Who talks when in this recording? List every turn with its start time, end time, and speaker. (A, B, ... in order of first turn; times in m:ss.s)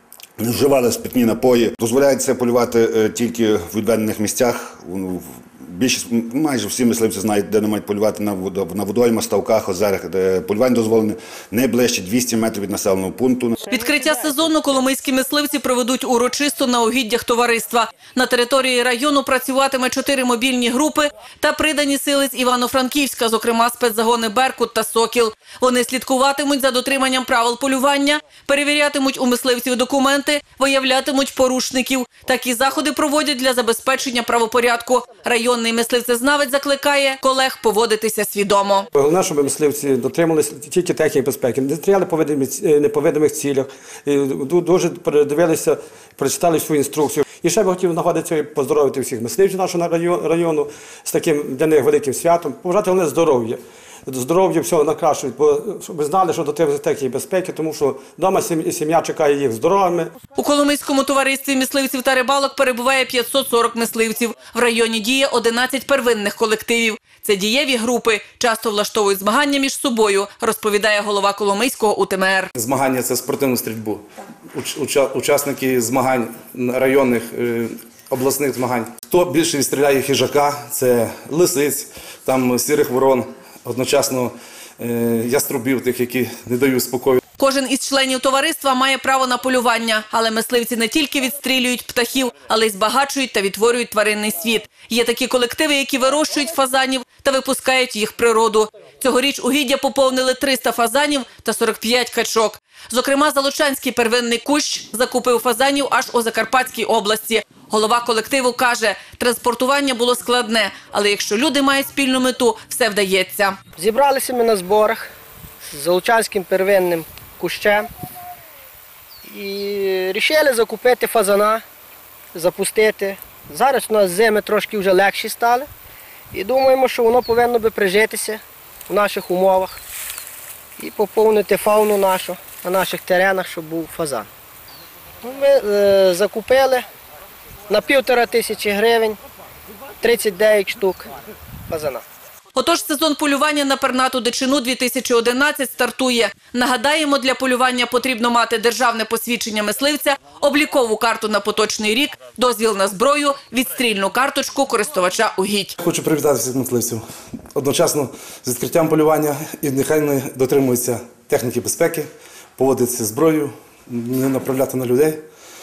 0:00.4-0:13.6 A
0:13.7-0:38.9 B
0:38.9-1:00.2 C
1:00.4-1:12.5 B
1:12.6-1:27.2 D
1:27.4-1:53.6 B
1:53.8-1:55.1 E
1:55.7-1:57.9 E
1:59.3-2:01.6 E
2:02.3-2:05.7 E
2:06.3-2:09.8 E
2:10.8-2:14.3 E
2:15.2-2:16.9 E
2:17.7-2:19.2 E
2:20.0-2:21.1 E
2:21.7-2:22.0 E
2:22.6-2:35.8 B
2:35.8-2:37.0 D
2:37.6-2:45.2 D